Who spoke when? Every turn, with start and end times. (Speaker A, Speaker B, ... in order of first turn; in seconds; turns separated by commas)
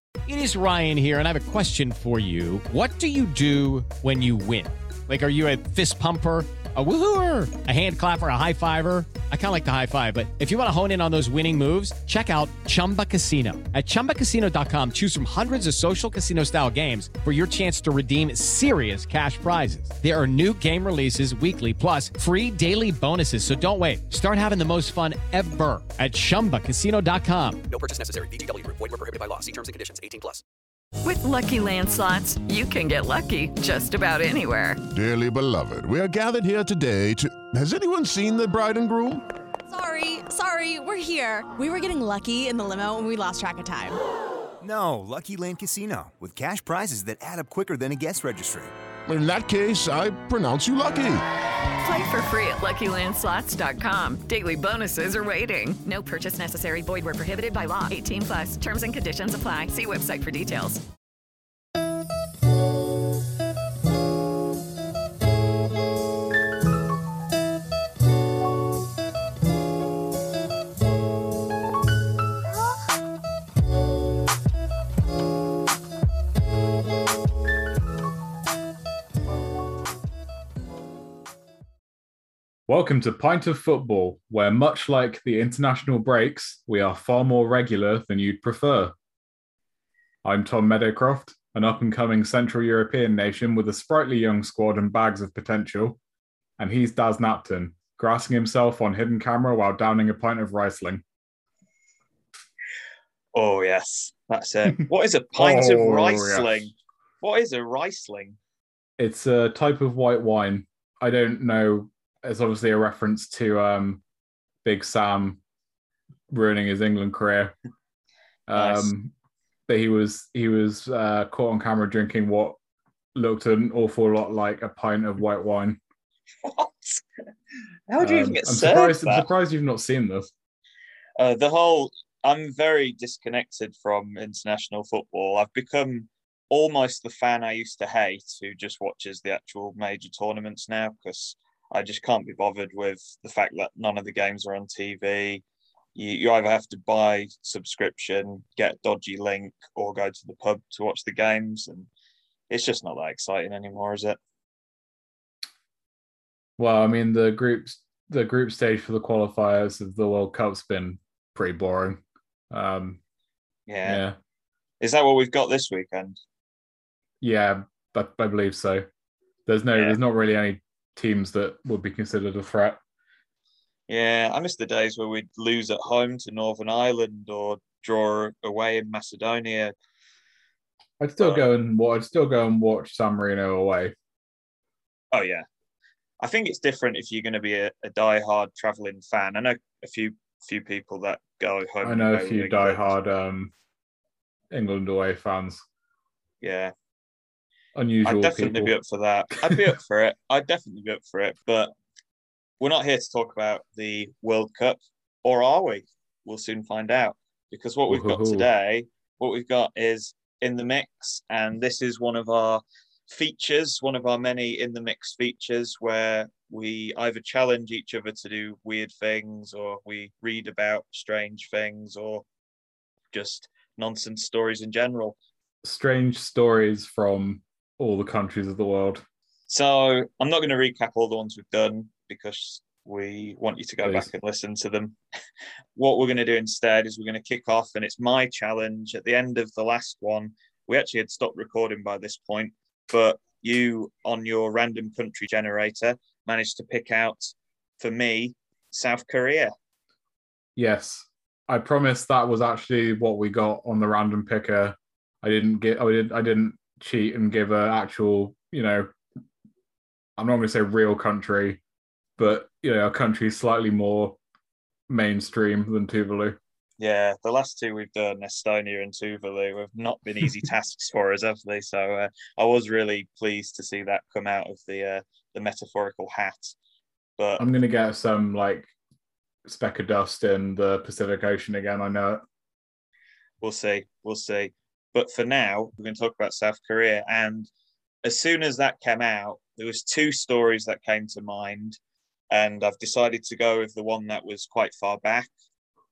Speaker A: 0.2-27.6, Speaker B: 27.7-30.4, Speaker C: 31.0-34.8, Speaker D: 34.9-39.2, Speaker E: 39.7-44.0, Speaker F: 44.6-48.7, Speaker D: 49.1-51.2, Speaker C: 51.8-60.8, Speaker G: 82.7-88.9, Speaker G: 90.2-96.0, Speaker G: 96.6-101.0, Speaker H: 103.3-108.4, Speaker G: 105.3-106.7, Speaker G: 109.0-114.0, Speaker G: 114.6-115.4, Speaker G: 116.3-117.5, Speaker G: 118.5-119.1, Speaker H: 118.5-118.9, Speaker G: 119.7-122.6, Speaker G: 123.2-125.8, Speaker H: 126.4-127.0, Speaker H: 127.9-129.2, Speaker G: 128.0-130.3, Speaker H: 131.2-145.4, Speaker H: 145.9-151.9, Speaker H: 152.5-154.2, Speaker G: 156.6-163.0, Speaker H: 163.7-164.0, Speaker G: 163.8-164.2, Speaker H: 164.8-166.2, Speaker G: 167.2-168.8, Speaker G: 169.5-172.8, Speaker H: 173.9-179.7, Speaker G: 181.0-183.9, Speaker H: 181.2-181.5, Speaker H: 185.1-185.5, Speaker H: 186.2-192.9, Speaker G: 191.8-193.5, Speaker G: 194.5-195.6, Speaker H: 196.4-196.7, Speaker G: 197.8-198.7, Speaker H: 198.0-201.7, Speaker G: 199.4-199.7, Speaker H: 202.6-222.2, Speaker G: 207.9-208.5, Speaker H: 223.1-225.2, Speaker G: 225.6-229.0, Speaker H: 229.5-234.9, Speaker G: 233.8-234.1, Speaker H: 235.8-249.5, Speaker G: 250.6-258.9, Speaker G: 260.2-261.6, Speaker G: 262.2-264.2, Speaker G: 264.9-266.4, Speaker H: 266.8-276.6, Speaker H: 277.2-277.4, Speaker G: 277.4-278.7, Speaker G: 279.4-282.2, Speaker H: 283.4-287.5, Speaker H: 288.0-291.8, Speaker H: 292.3-295.3